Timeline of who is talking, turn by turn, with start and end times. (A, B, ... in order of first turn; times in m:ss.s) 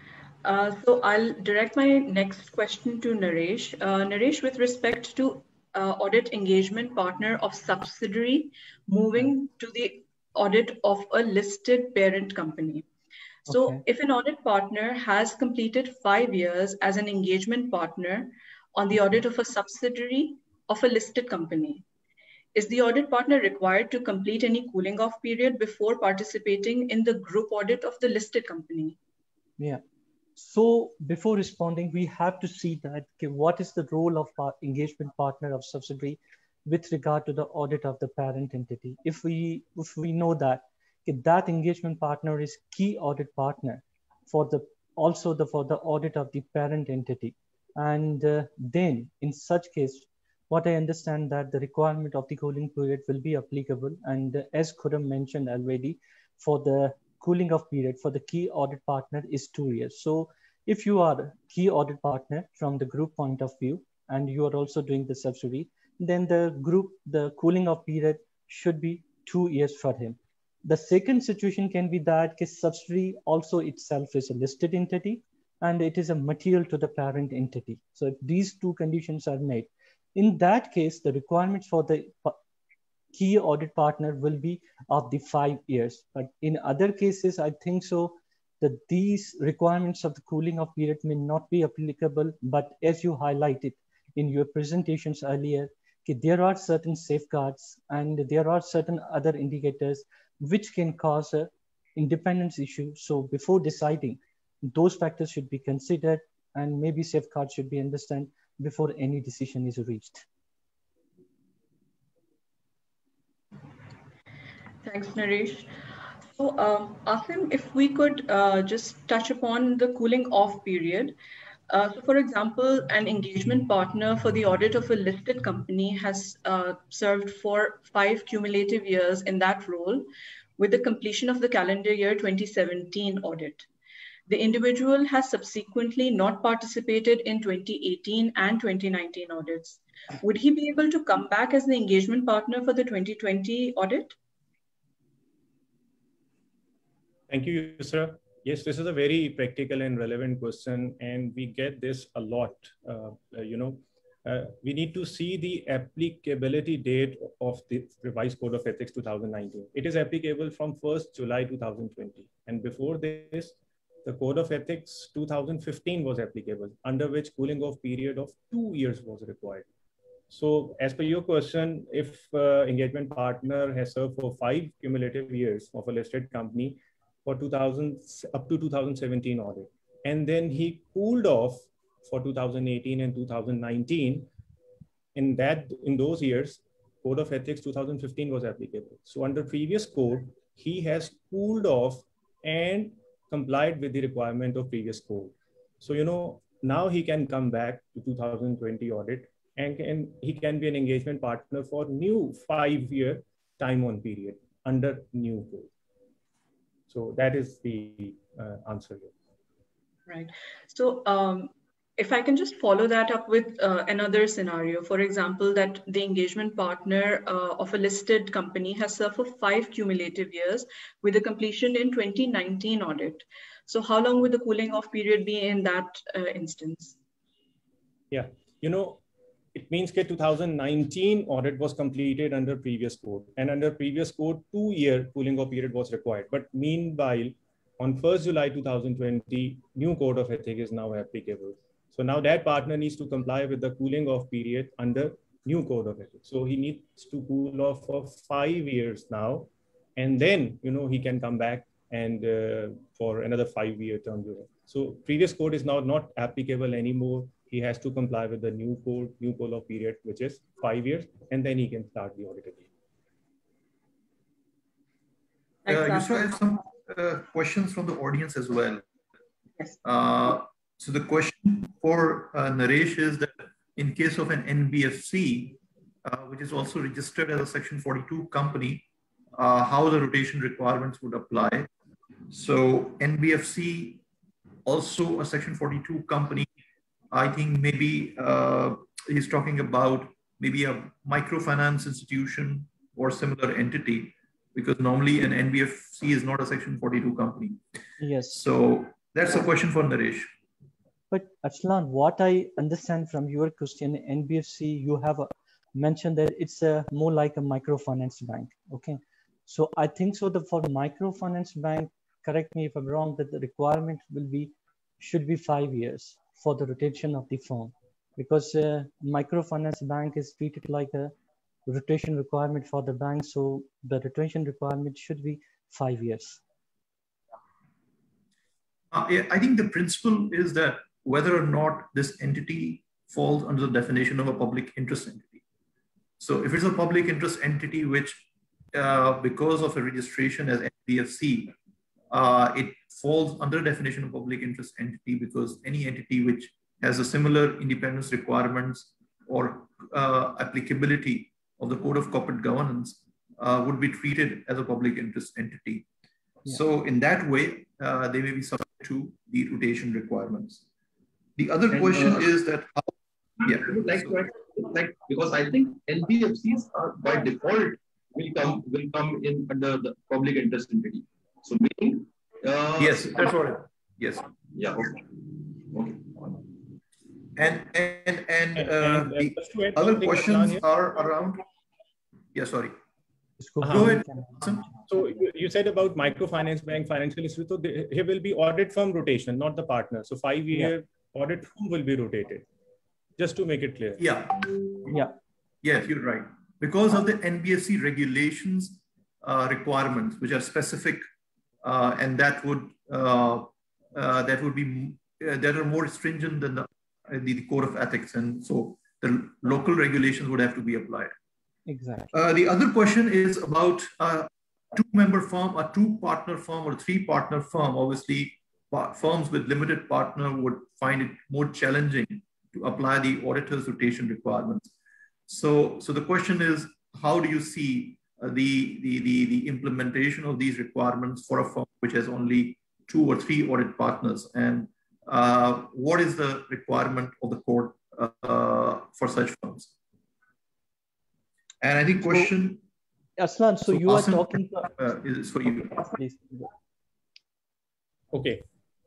0:00.4-0:12.8 A
0:13.5-0:13.8 B
0:13.5-0:21.8 A
0:22.6-0:29.0 A
0:30.4-1:22.4 B
1:23.1-1:50.3 B
1:54.8-1:55.7 A
1:56.3-2:01.2 A
2:01.7-2:13.7 A
2:14.3-2:24.2 A
2:27.3-2:49.7 C
2:50.3-3:04.3 C
3:05.2-3:25.7 C
3:26.9-3:29.1 C
3:30.1-3:47.0 A
3:48.1-3:49.0 C
3:49.6-4:22.7 C
4:25.7-4:26.3 A
4:25.7-4:28.8 D
4:29.8-4:41.7 D
4:42.3-4:44.0 D
4:44.7-4:46.5 D
4:47.1-4:57.6 D
4:58.0-4:58.4 B
4:58.3-5:00.3 D
5:01.1-5:21.1 B
5:21.7-5:26.4 B
5:28.9-5:35.4 D
5:36.2-5:41.6 D
5:42.1-5:55.9 D
5:56.4-6:00.6 D
6:01.4-6:04.2 D
6:01.7-6:02.2 E
6:03.4-6:13.2 E
6:12.8-6:14.3 D
6:14.6-6:16.1 E
6:17.4-6:21.4 D
6:18.6-6:20.6 C
6:22.3-6:22.8 D
6:23.4-6:24.3 B
6:23.6-6:24.0 C
6:23.7-6:24.8 D
6:24.9-6:32.5 C
6:33.2-6:34.1 C
6:34.0-6:35.0 D
6:35.6-6:41.0 D
6:41.6-6:51.1 D
6:51.7-6:52.2 B
6:52.1-7:04.7 D
7:05.3-7:19.7 D
7:21.6-7:22.6 D
7:23.2-7:24.7 B
7:23.7-7:25.9 D
7:25.9-7:26.5 B
7:28.1-7:28.4 C